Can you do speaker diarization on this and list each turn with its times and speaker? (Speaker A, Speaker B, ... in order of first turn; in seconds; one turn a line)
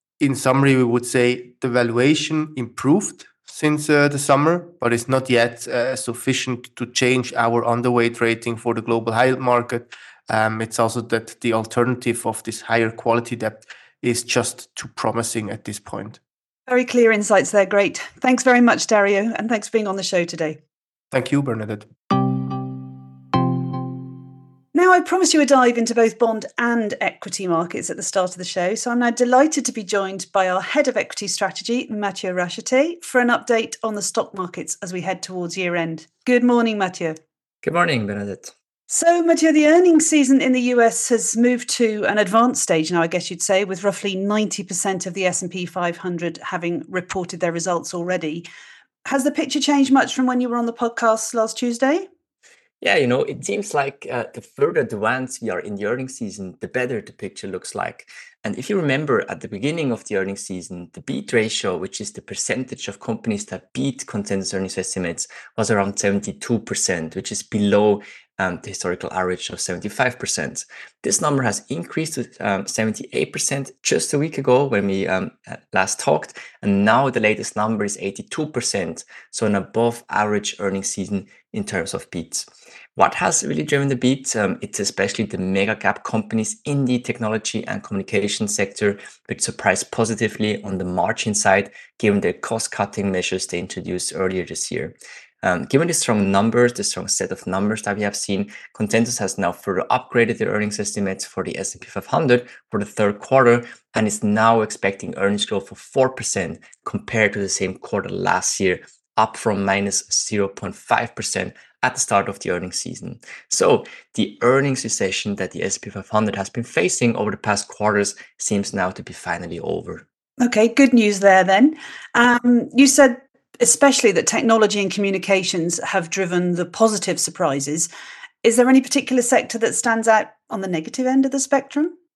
Speaker A: 0.2-16.2
Speaker B: 16.7-20.6
Speaker A: 21.1-21.9
Speaker B: 24.7-37.2
Speaker C: 37.6-38.5
Speaker B: 38.9-48.5
Speaker B: 49.1-52.1
Speaker C: 52.8-120.0
Speaker B: 120.4-127.9
Speaker B: 128.4-131.9